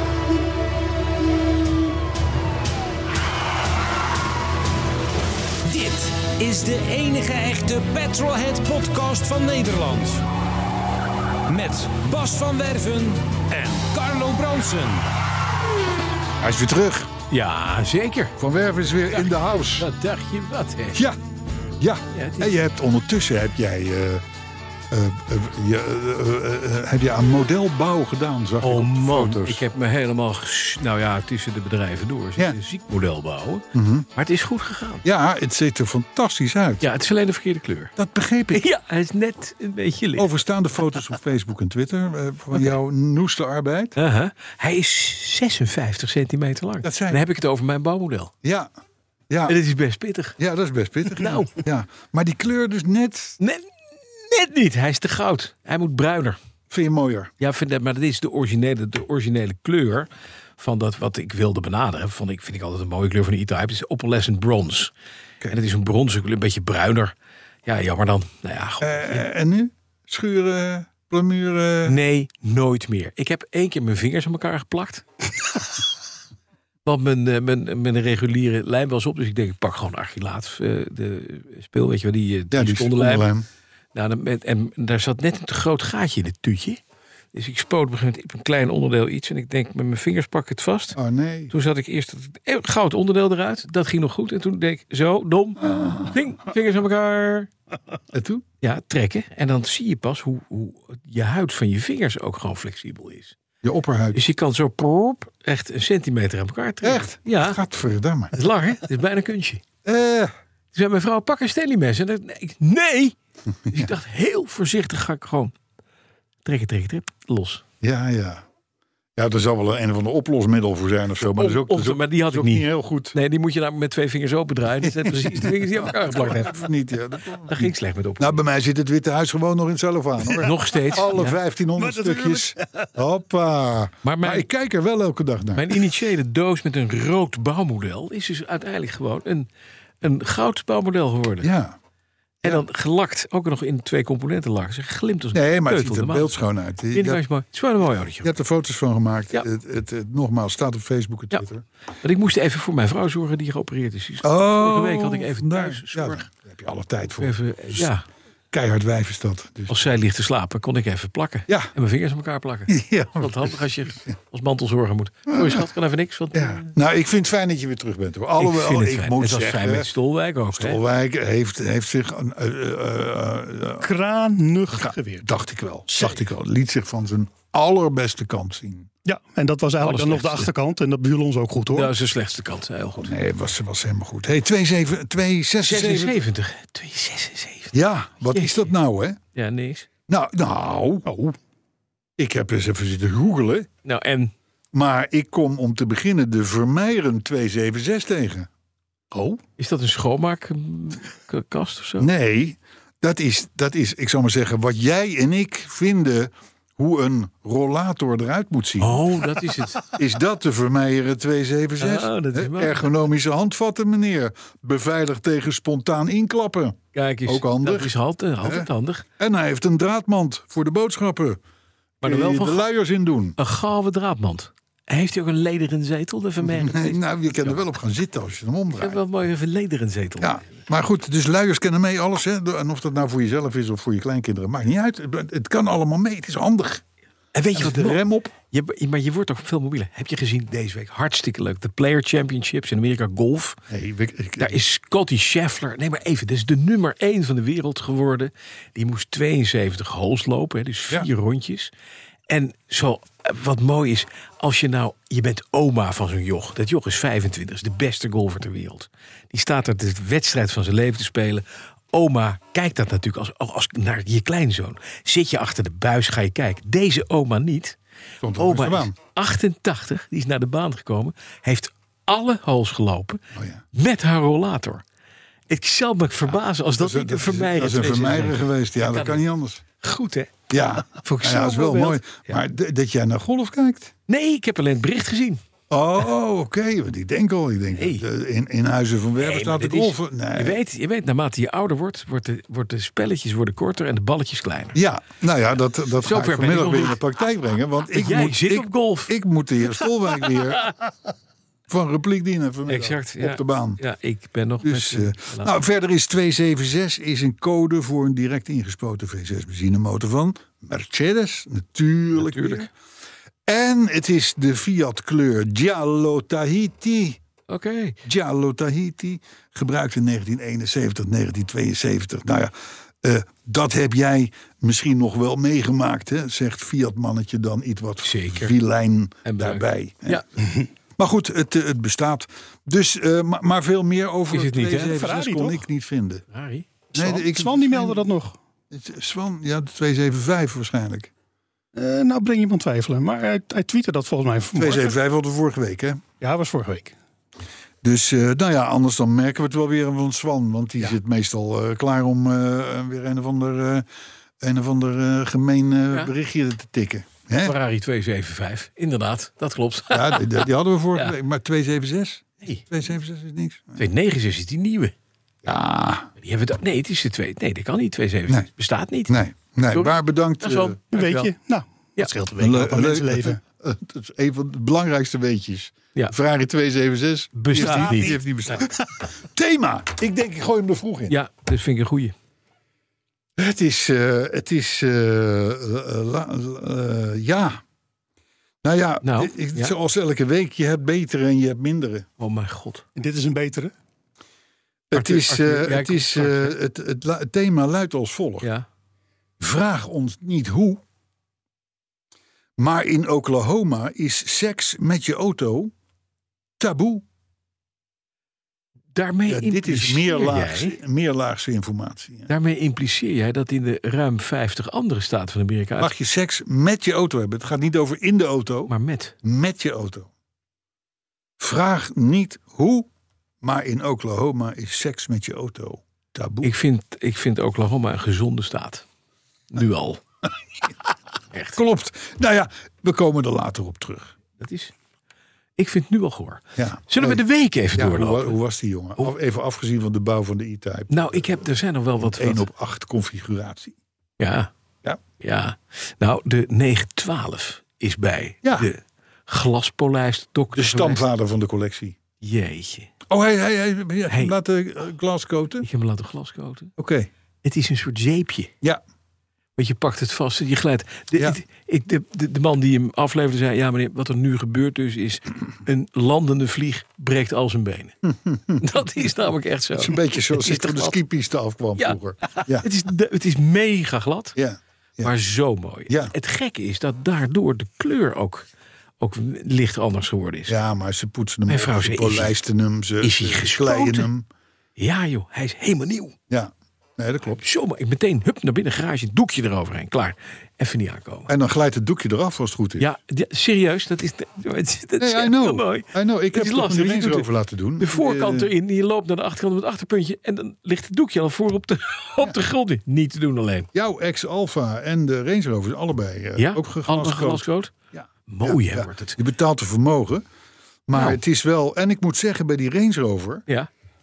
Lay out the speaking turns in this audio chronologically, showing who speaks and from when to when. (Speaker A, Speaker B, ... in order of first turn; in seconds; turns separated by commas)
Speaker A: 5.7-10.2, Speaker A: 11.5-15.1, Speaker B: 16.4-17.1, Speaker C: 17.3-18.4, Speaker B: 18.4-19.9, Speaker C: 19.1-21.0, Speaker B: 21.8-24.2, Speaker C: 22.1-22.6, Speaker B: 24.9-29.7, Speaker C: 28.6-35.0, Speaker B: 33.7-34.1, Speaker B: 35.0-36.9, Speaker C: 36.8-37.9, Speaker B: 38.0-38.6, Speaker C: 38.5-40.3, Speaker B: 40.2-44.0, Speaker C: 44.0-48.3, Speaker B: 46.8-47.3, Speaker B: 48.4-48.7, Speaker B: 49.3-49.6, Speaker C: 49.5-50.4, Speaker B: 50.4-53.4, Speaker C: 51.1-51.5, Speaker C: 53.4-56.4, Speaker B: 56.7-57.3, Speaker C: 57.4-64.9, Speaker C: 65.5-67.1, Speaker C: 67.7-69.2, Speaker B: 68.8-72.0, Speaker C: 71.8-75.0, Speaker C: 76.8-83.3, Speaker B: 82.5-83.5, Speaker C: 83.9-86.8, Speaker C: 87.3-91.0, Speaker B: 91.0-91.5, Speaker C: 91.5-97.5, Speaker B: 95.7-96.2, Speaker B: 98.1-98.5, Speaker C: 98.6-103.4, Speaker B: 103.6-104.2, Speaker C: 104.1-107.6, Speaker B: 106.8-108.4, Speaker C: 108.3-109.6, Speaker B: 109.8-110.3, Speaker C: 110.7-113.2, Speaker B: 113.7-113.9, Speaker C: 113.7-115.5, Speaker C: 116.4-117.6, Speaker B: 117.8-118.4, Speaker B: 119.2-123.2, Speaker C: 121.3-126.6, Speaker B: 124.8-135.8, Speaker C: 127.5-128.4, Speaker C: 130.4-131.4, Speaker D: 131.8-132.9, Speaker C: 134.0-134.4, Speaker C: 135.6-139.5, Speaker C: 140.0-141.5, Speaker B: 141.4-141.8, Speaker C: 142.4-146.3, Speaker B: 145.3-147.2, Speaker C: 146.9-148.3, Speaker B: 148.2-151.6, Speaker C: 152.0-156.3, Speaker B: 154.2-157.9, Speaker C: 157.2-158.1, Speaker B: 158.5-159.9, Speaker C: 159.7-166.7, Speaker B: 162.7-163.6, Speaker B: 165.3-165.6, Speaker B: 166.3-169.9, Speaker C: 168.4-170.8, Speaker B: 170.5-173.9, Speaker D: 173.8-175.3, Speaker B: 174.8-178.9, Speaker D: 179.1-181.9, Speaker C: 179.8-180.5, Speaker C: 181.7-183.1, Speaker B: 183.0-186.2, Speaker C: 185.6-187.8, Speaker B: 187.7-189.2, Speaker C: 188.3-188.7, Speaker C: 189.3-189.9, Speaker B: 190.1-191.1, Speaker D: 191.1-191.4, Speaker B: 192.2-193.7, Speaker C: 193.8-194.3, Speaker B: 194.7-198.5, Speaker D: 199.1-199.4, Speaker C: 199.6-202.1, Speaker B: 202.0-209.1, Speaker C: 208.8-209.8, Speaker B: 209.9-221.4, Speaker C: 211.8-212.8, Speaker C: 216.9-219.1, Speaker B: 222.0-223.4, Speaker C: 222.0-222.6, Speaker C: 223.4-227.6, Speaker B: 226.4-229.0, Speaker C: 228.8-230.6, Speaker B: 230.2-236.8, Speaker C: 237.3-243.6, Speaker B: 237.5-238.3, Speaker B: 243.7-244.6, Speaker C: 244.4-251.7, Speaker C: 252.3-267.8, Speaker B: 268.2-268.9, Speaker C: 268.4-273.2, Speaker B: 273.3-273.6, Speaker C: 273.7-274.8, Speaker C: 275.5-279.2, Speaker B: 276.8-279.6, Speaker C: 279.8-282.4, Speaker B: 280.5-283.9, Speaker C: 284.1-285.4, Speaker B: 285.7-290.6, Speaker C: 287.8-288.0, Speaker C: 289.2-294.8, Speaker B: 294.7-300.8, Speaker C: 296.0-297.0, Speaker C: 297.9-299.1, Speaker B: 301.7-303.8, Speaker C: 302.7-305.6, Speaker B: 304.6-312.7, Speaker C: 312.2-312.7, Speaker B: 313.5-317.2, Speaker C: 317.5-318.0, Speaker B: 318.0-330.2, Speaker C: 328.0-328.6, Speaker C: 329.2-330.3, Speaker B: 331.0-336.2, Speaker C: 334.3-335.0, Speaker D: 334.8-335.6, Speaker C: 336.3-336.7, Speaker B: 336.9-338.1, Speaker D: 336.9-338.4, Speaker B: 338.7-341.1, Speaker D: 341.8-344.9, Speaker B: 344.6-346.0, Speaker D: 346.2-346.9, Speaker B: 347.8-353.9, Speaker B: 354.4-357.6, Speaker C: 357.4-361.1, Speaker B: 359.9-363.9, Speaker C: 363.8-364.9, Speaker B: 365.4-366.1, Speaker C: 366.2-369.2, Speaker B: 369.1-370.8, Speaker C: 369.7-371.3, Speaker D: 370.9-373.4, Speaker B: 372.4-381.2, Speaker C: 377.4-378.6, Speaker D: 377.5-378.7, Speaker C: 381.1-382.1, Speaker B: 383.4-387.6, Speaker B: 388.6-392.1, Speaker C: 389.0-389.7, Speaker C: 392.2-392.8, Speaker D: 393.0-393.7, Speaker B: 394.9-398.5, Speaker C: 394.9-396.6, Speaker B: 399.4-400.8, Speaker B: 402.6-405.7, Speaker B: 406.6-407.1, Speaker C: 408.9-410.8, Speaker B: 409.3-412.3, Speaker C: 412.3-415.9, Speaker B: 415.8-418.7, Speaker C: 418.7-419.1, Speaker B: 419.2-420.1, Speaker B: 421.4-422.9, Speaker B: 423.4-426.5, Speaker C: 426.4-428.9, Speaker C: 429.5-430.0, Speaker C: 431.3-431.6, Speaker B: 431.6-434.2, Speaker C: 434.4-434.7, Speaker C: 435.6-438.4, Speaker B: 436.6-437.2, Speaker B: 437.7-441.3, Speaker C: 440.9-442.4, Speaker B: 442.0-443.8, Speaker C: 444.2-444.5, Speaker C: 445.2-451.1, Speaker B: 448.4-448.7, Speaker B: 450.6-452.0, Speaker C: 452.2-452.9, Speaker B: 453.1-455.7, Speaker C: 454.1-454.4, Speaker C: 455.6-456.7, Speaker B: 456.8-457.1, Speaker C: 457.4-458.5, Speaker C: 459.6-468.0, Speaker B: 468.1-468.6, Speaker C: 468.6-471.0, Speaker B: 469.8-472.7, Speaker C: 471.8-474.4, Speaker B: 474.4-475.1, Speaker C: 475.0-478.5, Speaker B: 475.9-476.1, Speaker C: 479.0-480.6, Speaker B: 480.5-484.3, Speaker C: 481.5-482.3, Speaker C: 483.0-484.1, Speaker C: 484.8-486.2, Speaker B: 486.3-487.4, Speaker C: 487.3-491.3, Speaker B: 491.3-492.9, Speaker C: 492.8-497.3, Speaker B: 495.0-498.5, Speaker C: 497.8-503.7, Speaker B: 503.7-510.2, Speaker C: 506.4-507.7, Speaker C: 508.3-509.2, Speaker B: 510.9-513.5